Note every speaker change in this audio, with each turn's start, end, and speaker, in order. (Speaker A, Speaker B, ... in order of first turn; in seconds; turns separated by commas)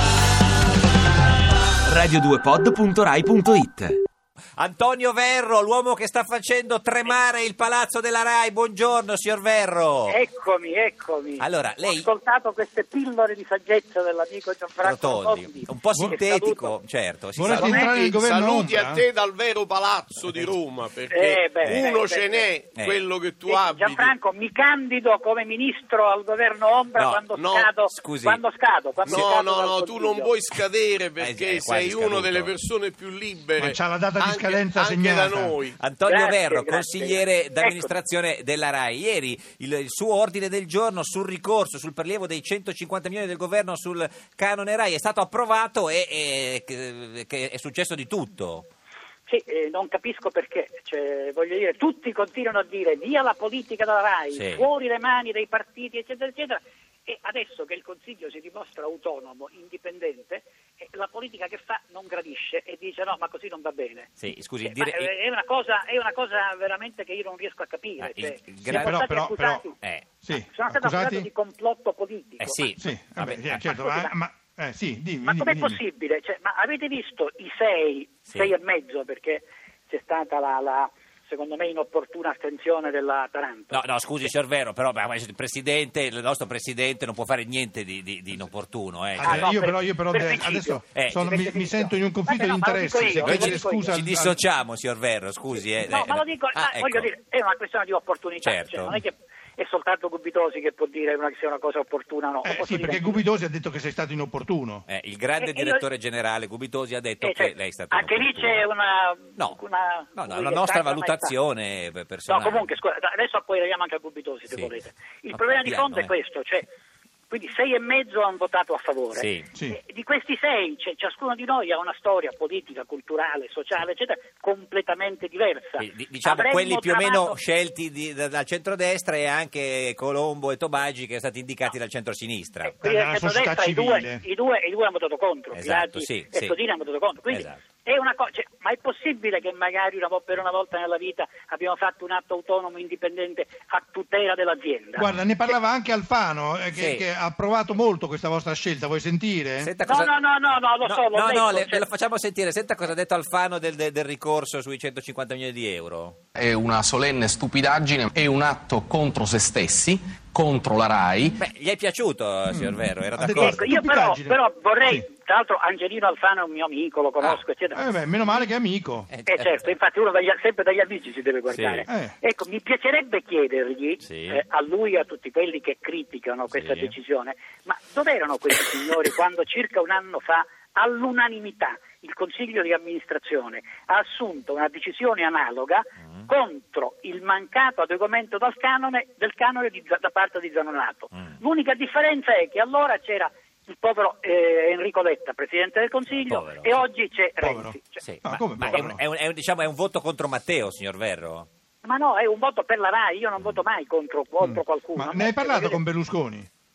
Speaker A: 1.8-4.0, Speaker B: 4.5-10.2, Speaker C: 10.1-16.7, Speaker B: 11.4-12.1, Speaker B: 14.8-17.9, Speaker D: 17.4-19.0, Speaker C: 17.5-17.8, Speaker E: 17.6-24.1, Speaker C: 21.1-22.4, Speaker C: 23.5-30.3, Speaker B: 26.9-27.3, Speaker E: 27.3-27.7, Speaker B: 27.8-28.4, Speaker E: 29.1-35.8, Speaker B: 31.2-32.5, Speaker D: 33.6-35.6, Speaker B: 35.8-48.7, Speaker C: 36.0-37.9, Speaker C: 49.3-64.1, Speaker B: 54.3-54.6, Speaker B: 64.2-65.1, Speaker C: 64.6-69.8, Speaker B: 68.0-69.0, Speaker D: 68.6-69.6, Speaker B: 69.8-70.1, Speaker D: 70.2-71.3, Speaker C: 70.4-72.6, Speaker B: 72.4-73.6, Speaker D: 72.8-75.8, Speaker C: 73.7-74.1, Speaker C: 75.2-83.8, Speaker B: 83.7-89.5, Speaker D: 89.2-94.4, Speaker C: 89.2-94.0, Speaker B: 91.0-91.2, Speaker B: 93.2-97.1, Speaker C: 95.9-103.2, Speaker B: 98.4-99.0, Speaker D: 102.4-104.8, Speaker B: 104.9-108.6, Speaker C: 105.4-105.8, Speaker C: 107.2-111.3, Speaker B: 110.1-112.7, Speaker C: 112.3-116.7, Speaker B: 115.3-116.1, Speaker C: 117.3-127.4, Speaker B: 119.1-119.5, Speaker B: 125.8-132.8, Speaker C: 132.6-145.1, Speaker D: 132.8-134.2, Speaker B: 135.5-136.6, Speaker B: 137.3-137.6, Speaker D: 144.9-149.7, Speaker B: 146.8-147.1, Speaker B: 149.6-150.1, Speaker C: 149.8-151.8, Speaker B: 150.8-156.2, Speaker F: 156.3-161.4, Speaker B: 161.4-163.7, Speaker D: 162.5-165.1, Speaker C: 163.4-168.4, Speaker D: 167.7-169.1, Speaker B: 169.1-169.7, Speaker C: 169.3-198.0, Speaker B: 171.5-171.9, Speaker D: 171.9-172.1, Speaker B: 174.0-174.4, Speaker B: 176.5-176.9, Speaker B: 196.1-196.8, Speaker D: 197.4-199.0, Speaker B: 198.0-201.5, Speaker C: 201.8-205.8, Speaker D: 204.4-206.5